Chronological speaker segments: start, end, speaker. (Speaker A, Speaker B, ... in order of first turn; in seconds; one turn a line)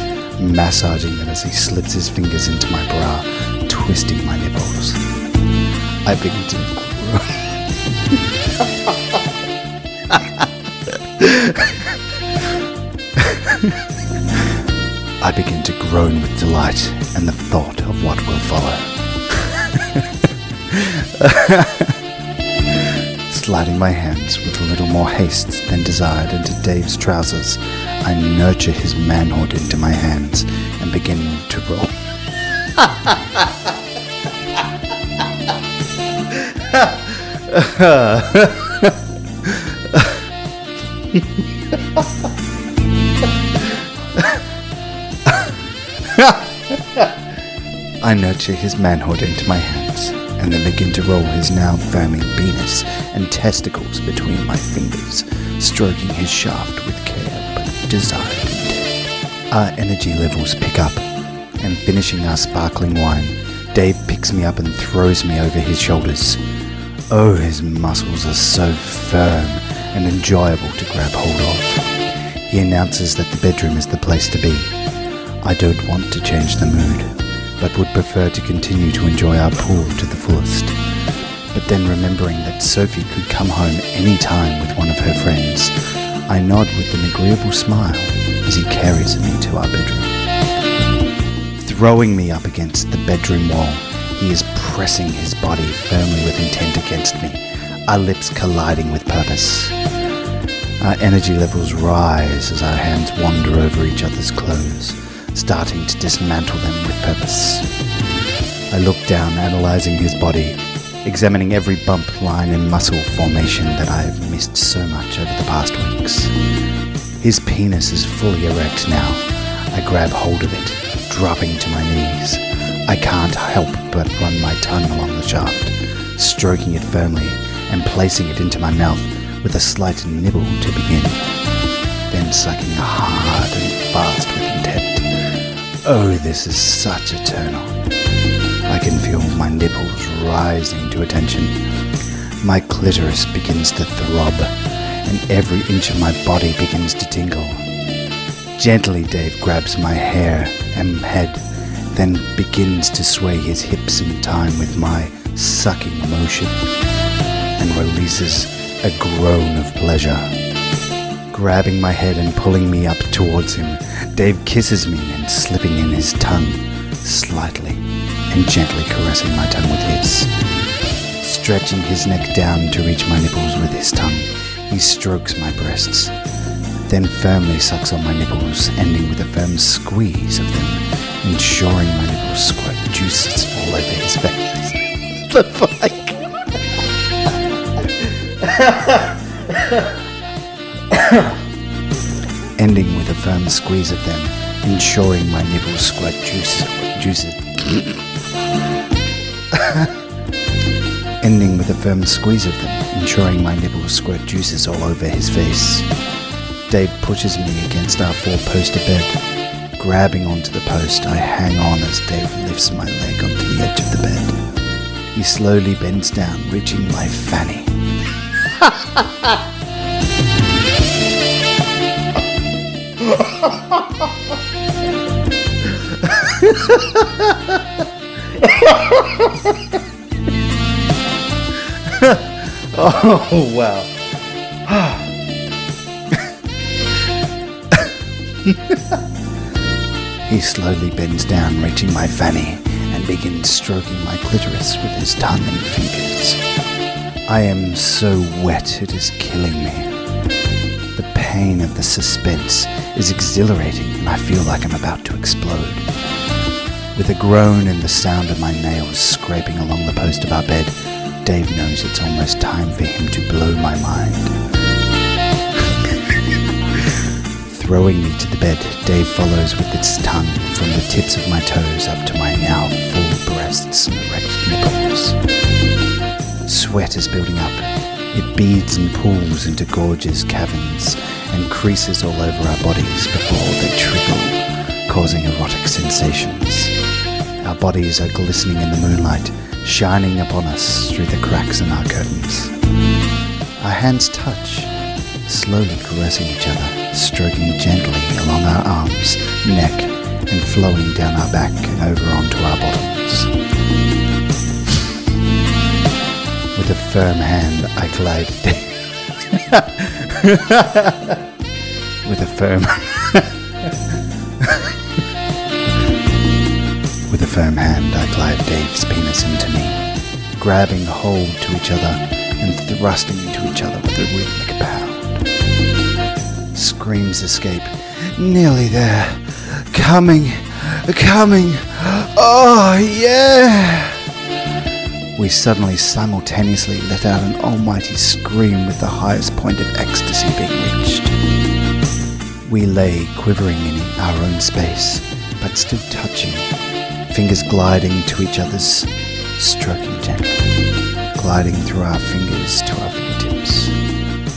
Speaker A: 0.4-5.0
Speaker A: 6.0-7.6
Speaker A: 11.2-11.7
Speaker A: 15.2-18.9
Speaker A: 20.7-22.0
Speaker A: 23.3-31.9
Speaker A: 36.7-38.9
Speaker A: 39.5-40.2
Speaker A: 44.2-44.4
Speaker A: 45.3-45.5
Speaker A: 46.0-47.1
Speaker A: 48.0-59.0
Speaker A: 59.5-61.1
Speaker A: 61.6-66.4
Speaker A: 67.1-74.8
Speaker A: 75.4-80.8
Speaker A: 81.5-85.8
Speaker A: 86.3-90.2
Speaker A: 91.6-99.8
Speaker A: 100.8-107.7
Speaker A: 108.7-116.3
Speaker A: 117.2-131.2
Speaker A: 132.1-135.1
Speaker A: 135.8-137.8
Speaker A: 138.7-141.6
Speaker A: 142.4-147.7
Speaker A: 148.6-156.6
Speaker A: 157.6-160.3
Speaker A: 161.3-170.3
Speaker A: 171.2-176.1
Speaker A: 176.9-186.3
Speaker A: 192.6-198.0
Speaker A: 199.5-200.0
Speaker A: 201.2-205.9
Speaker A: 206.7-209.2
Speaker A: 209.8-214.4
Speaker A: 215.1-217.7
Speaker A: 232.0-234.0
Speaker A: 234.7-235.1
Speaker A: 240.3-246.4
Speaker A: 247.3-249.9
Speaker A: 250.9-255.9
Speaker A: 256.9-264.3
Speaker A: 267.4-275.2
Speaker A: 276.5-286.7
Speaker A: 287.4-292.5
Speaker A: 293.6-294.7
Speaker A: 295.3-303.3
Speaker A: 306.5-311.1
Speaker A: 312.0-313.3
Speaker A: 317.1-319.8
Speaker A: 320.4-325.2
Speaker A: 326.5-334.0
Speaker A: 335.1-341.1
Speaker A: 342.4-346.5
Speaker A: 347.1-350.4
Speaker A: 351.1-353.8